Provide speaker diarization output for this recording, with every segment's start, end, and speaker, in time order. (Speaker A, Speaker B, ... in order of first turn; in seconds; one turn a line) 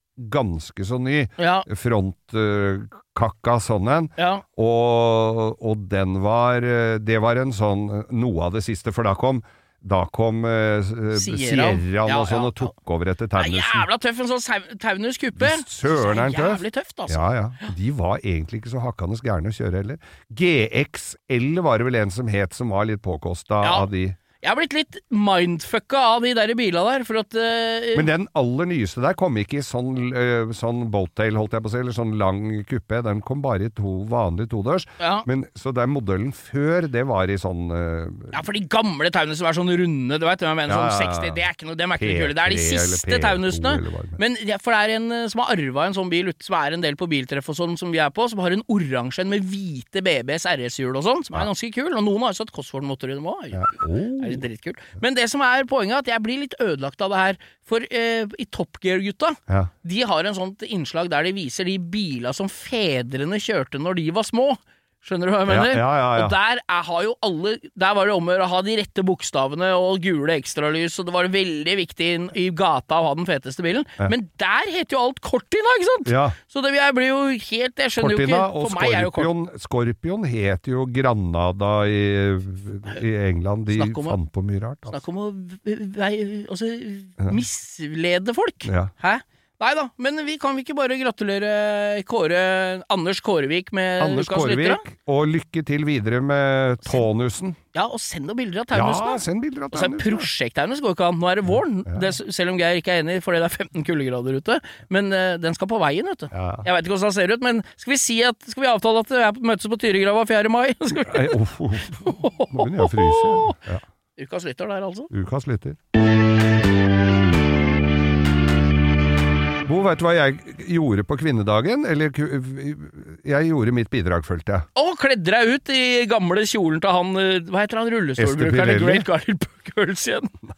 Speaker A: 0.2-13.9
Speaker B: 1.4-1.7
Speaker B: 4.2-4.4
Speaker B: 11.1-12.7
Speaker B: 13.3-17.7
Speaker A: 15.4-24.2
Speaker B: 23.6-23.9
Speaker B: 24.4-28.1
Speaker A: 27.9-38.3
Speaker B: 35.0-35.2
Speaker B: 38.3-79.3
Speaker A: 40.6-41.4
Speaker A: 42.0-44.2
Speaker A: 53.5-54.4
Speaker A: 65.5-66.3
Speaker A: 76.0-76.3
Speaker A: 78.0-85.0
Speaker B: 83.7-84.2
Speaker B: 84.9-94.8
Speaker A: 88.7-88.9
Speaker A: 94.0-97.6
Speaker B: 97.7-111.4
Speaker A: 98.7-100.3
Speaker A: 106.3-106.7
Speaker A: 110.9-113.8
Speaker B: 111.9-113.5
Speaker B: 114.2-115.1
Speaker A: 115.1-115.8
Speaker A: 119.6-124.7
Speaker B: 124.7-130.3
Speaker A: 128.2-129.1